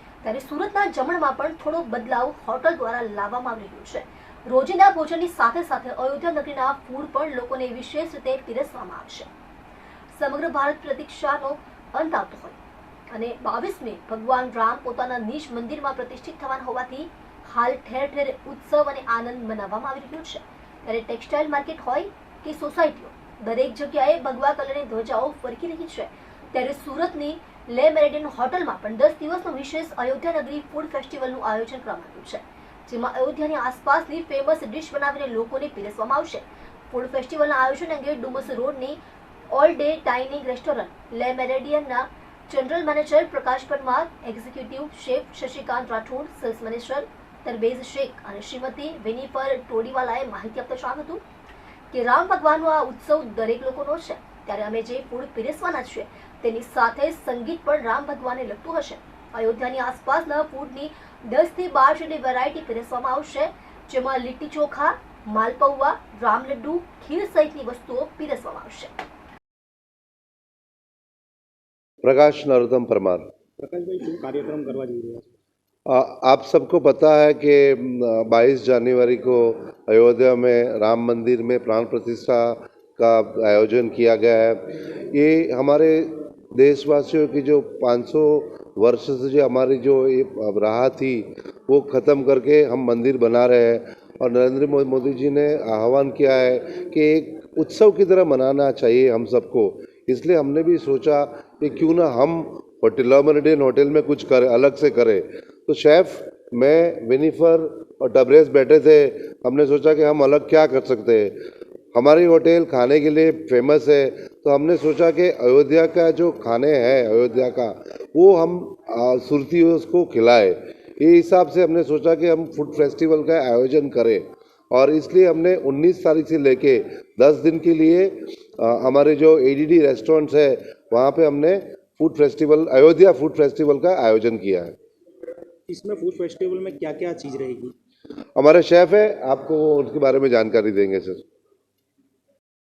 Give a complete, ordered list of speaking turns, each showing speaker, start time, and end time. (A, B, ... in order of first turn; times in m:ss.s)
0:00.2-0:09.3 A
0:10.1-0:12.6 A
0:13.1-0:39.0 A
0:39.5-0:51.2 A
0:51.9-1:08.9 A
1:12.0-1:13.3 B
1:13.6-1:15.2 C
1:15.9-2:14.8 B
2:15.7-2:17.7 C
2:18.4-2:21.2 B